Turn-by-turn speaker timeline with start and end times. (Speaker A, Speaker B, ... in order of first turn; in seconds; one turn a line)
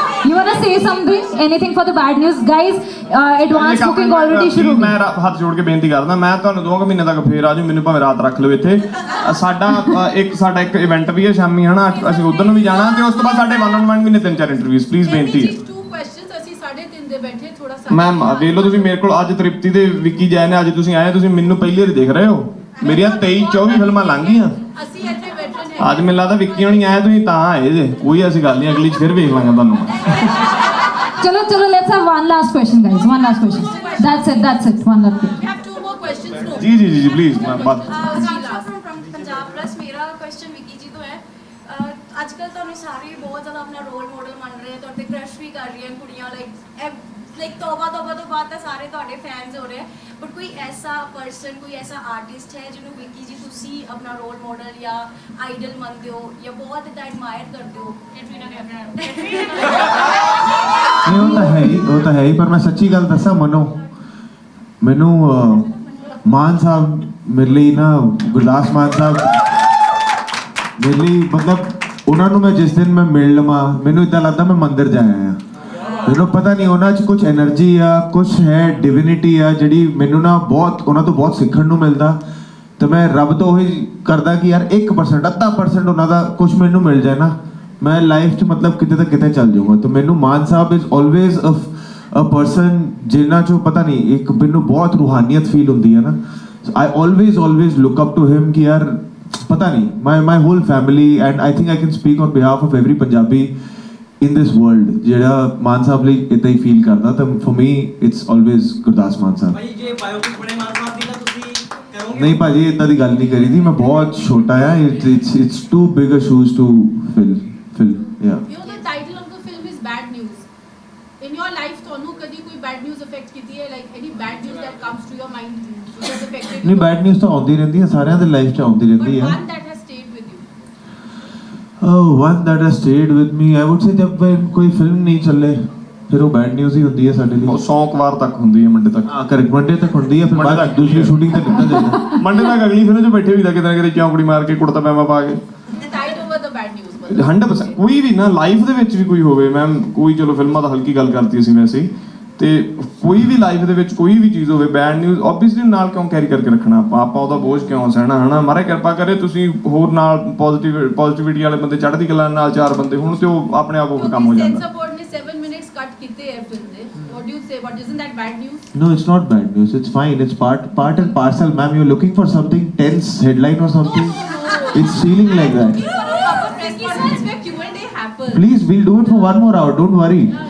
Speaker A: 0.2-5.0
Speaker B: 3.5-15.6
Speaker C: 15.1-18.9
Speaker B: 17.9-24.6
Speaker C: 22.8-26.6
Speaker B: 25.8-30.3
Speaker A: 31.2-35.4
Speaker C: 33.1-34.7
Speaker C: 35.4-38.7
Speaker B: 36.6-38.3
Speaker D: 37.9-60.0
Speaker E: 61.0-63.8
Speaker E: 64.8-65.7
Speaker E: 66.2-69.4
Speaker E: 70.8-75.4
Speaker E: 76.0-82.2
Speaker E: 82.8-103.5
Speaker E: 104.2-109.6
Speaker F: 109.5-112.4
Speaker E: 112.1-118.4
Speaker C: 118.5-120.5
Speaker C: 121.2-127.0
Speaker E: 126.6-129.4
Speaker C: 129.0-130.4
Speaker E: 131.8-137.6
Speaker B: 137.4-139.1
Speaker E: 139.1-142.1
Speaker B: 140.3-145.4
Speaker C: 145.8-147.8
Speaker B: 147.1-164.6
Speaker C: 163.9-168.6
Speaker E: 168.7-174.2
Speaker C: 173.9-178.4
Speaker E: 174.7-175.9
Speaker D: 175.9-177.4
Speaker E: 178.3-180.4